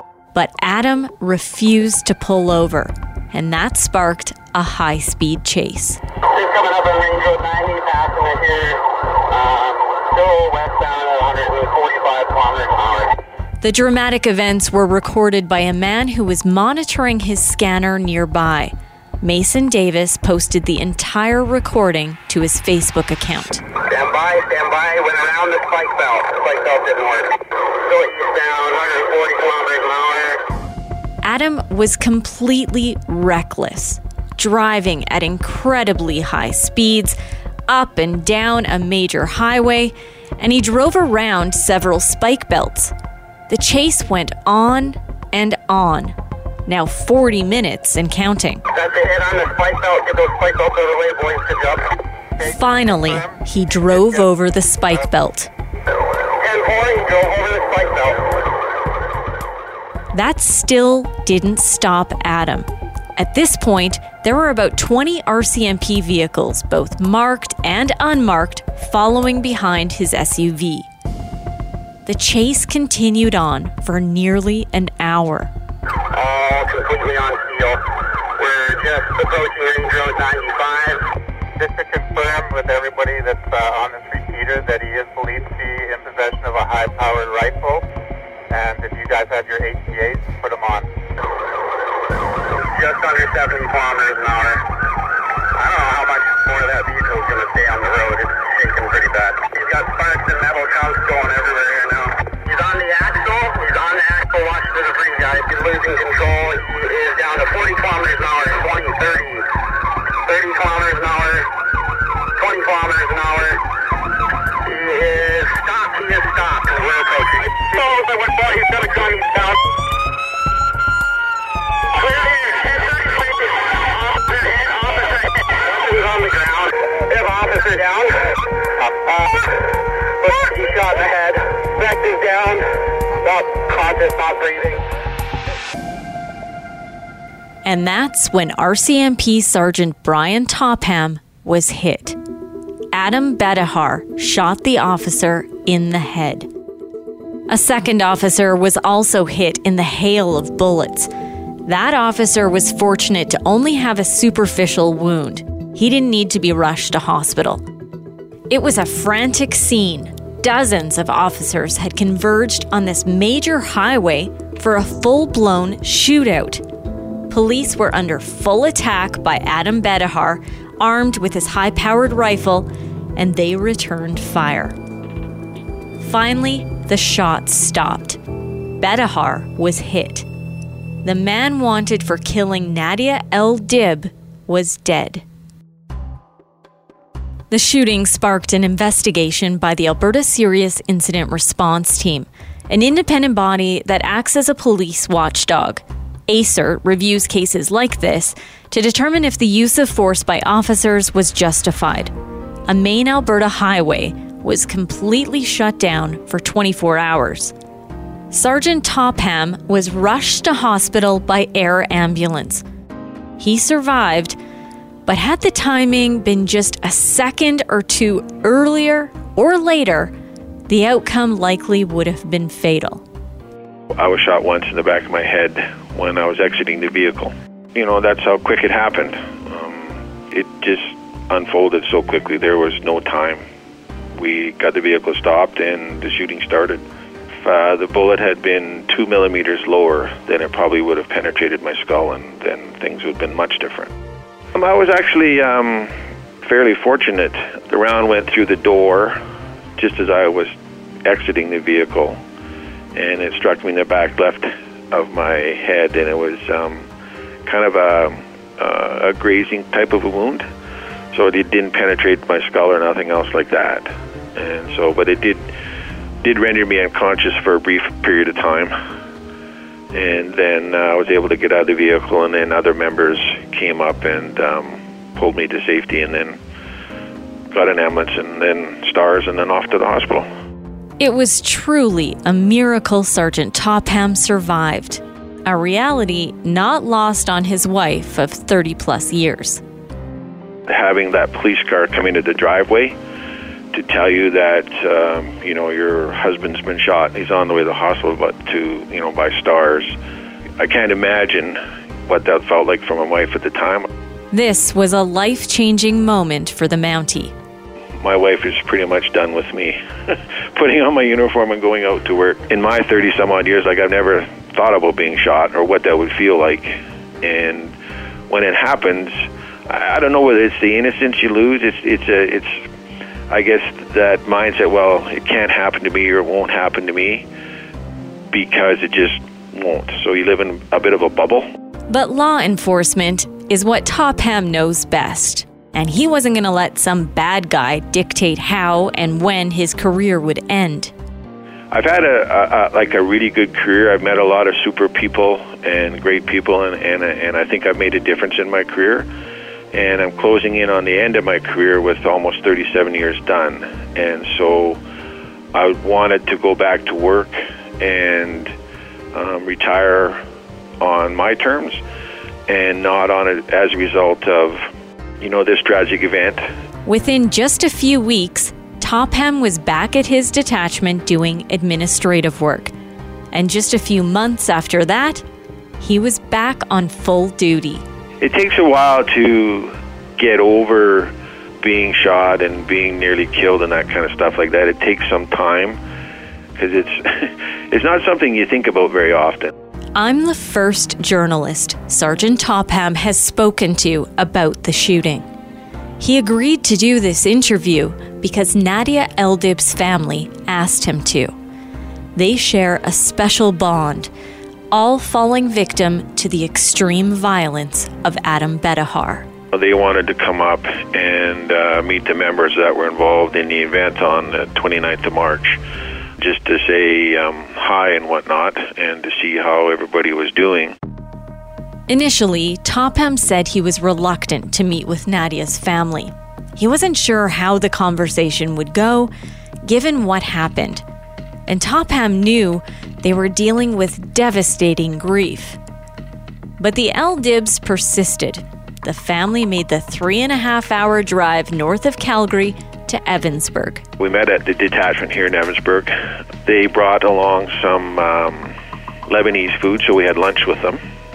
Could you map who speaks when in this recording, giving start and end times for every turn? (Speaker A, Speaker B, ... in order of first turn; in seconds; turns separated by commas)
Speaker A: 0.3-6.0, Speaker B: 6.3-13.2, Speaker A: 13.6-23.6, Speaker B: 23.9-30.4, Speaker A: 31.2-37.2, Speaker A: 37.7-42.9, Speaker A: 43.5-46.1, Speaker A: 46.7-48.6, Speaker B: 48.7-51.9, Speaker B: 52.4-53.1, Speaker A: 52.4-55.5, Speaker B: 56.4-58.5, Speaker A: 60.1-70.9, Speaker A: 72.1-75.5, Speaker B: 76.1-77.8, Speaker B: 78.4-81.0, Speaker B: 81.6-87.8, Speaker B: 88.5-90.9, Speaker B: 92.5-94.6, Speaker B: 95.6-109.5, Speaker B: 110.2-111.5, Speaker B: 112.4-113.6, Speaker B: 114.6-119.6, Speaker B: 121.9-132.7, Speaker B: 133.2-134.8, Speaker A: 137.7-142.2, Speaker A: 142.9-146.5, Speaker A: 147.5-151.1, Speaker A: 151.7-157.6, Speaker A: 158.5-166.6, Speaker A: 167.3-174.8, Speaker A: 176.0-178.2, Speaker A: 178.8-180.3, Speaker A: 181.0-185.2, Speaker A: 187.5-202.1, Speaker A: 202.7-207.5, Speaker A: 208.3-212.6, Speaker A: 213.4-214.4, Speaker A: 215.1-220.1, Speaker A: 220.7-223.0, Speaker C: 223.9-233.4, Speaker C: 234.2-236.8, Speaker C: 237.4-243.9, Speaker C: 244.5-249.2, Speaker C: 249.8-250.5, Speaker C: 251.1-252.2, Speaker C: 252.9-256.9, Speaker C: 257.5-260.4, Speaker C: 261.1-265.5, Speaker C: 266.2-268.7, Speaker C: 269.9-276.4, Speaker C: 277.5-280.3, Speaker A: 281.0-289.6, Speaker C: 290.7-292.9, Speaker C: 293.7-299.9, Speaker C: 300.6-303.9, Speaker A: 304.3-307.3, Speaker C: 308.0-317.7, Speaker C: 318.3-319.1, Speaker C: 319.7-322.6, Speaker C: 323.3-327.2, Speaker C: 328.3-331.5, Speaker A: 331.9-340.9, Speaker C: 341.7-349.1, Speaker C: 349.7-354.8, Speaker C: 355.5-358.5, Speaker C: 359.1-360.2, Speaker C: 360.8-361.8, Speaker C: 362.5-364.7, Speaker C: 365.2-366.5, Speaker A: 366.9-372.7, Speaker A: 373.3-375.2, Speaker A: 375.8-377.8, Speaker C: 378.2-385.8, Speaker C: 386.6-389.5, Speaker A: 390.0-395.3, Speaker A: 396.0-401.3, Speaker A: 402.2-404.1, Speaker A: 404.7-409.3, Speaker C: 409.5-415.6, Speaker C: 416.2-420.8, Speaker A: 421.9-429.1, Speaker A: 429.6-430.8, Speaker A: 431.5-435.6, Speaker A: 436.6-443.9, Speaker C: 444.0-445.9, Speaker C: 446.4-448.6, Speaker C: 449.1-450.8